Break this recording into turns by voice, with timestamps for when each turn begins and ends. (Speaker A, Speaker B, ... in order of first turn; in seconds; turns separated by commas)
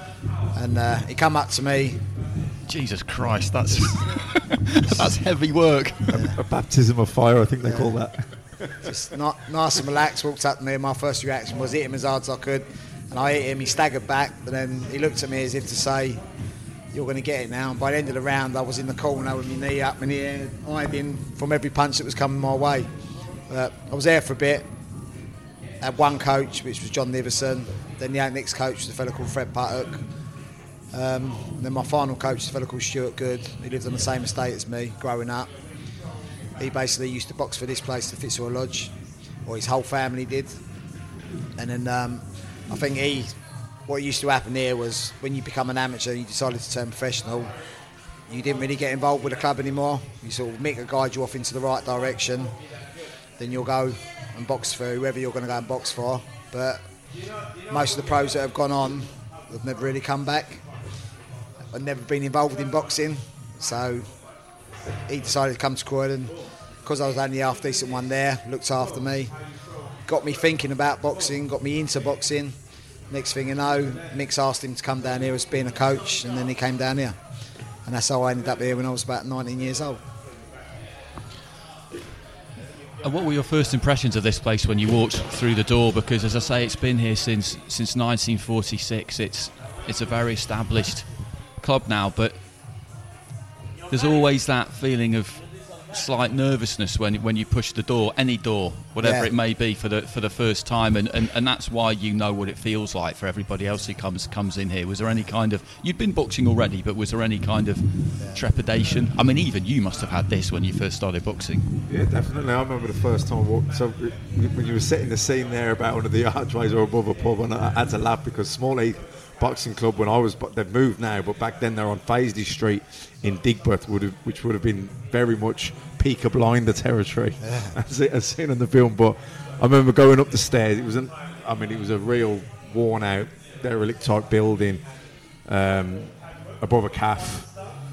Speaker A: 0.5-2.0, Speaker B: 2.7-6.1, Speaker C: 6.1-8.3, Speaker A: 6.1-6.4, Speaker A: 7.6-8.0, Speaker A: 8.8-16.2, Speaker A: 16.9-22.9, Speaker A: 23.5-24.7, Speaker A: 25.8-30.0, Speaker A: 30.9-35.5, Speaker A: 36.6-38.9, Speaker A: 39.5-40.6, Speaker A: 41.6-43.4, Speaker A: 43.9-47.5, Speaker A: 48.3-52.5, Speaker A: 53.4-56.8, Speaker A: 57.7-60.6, Speaker A: 61.7-64.1, Speaker A: 65.1-69.3, Speaker A: 70.1-72.6, Speaker A: 73.1-77.2, Speaker A: 77.8-80.0, Speaker B: 83.0-91.1, Speaker B: 91.6-92.4, Speaker B: 93.9-111.7, Speaker A: 99.0-99.3, Speaker C: 111.9-134.8, Speaker A: 127.4-127.8, Speaker C: 135.5-137.5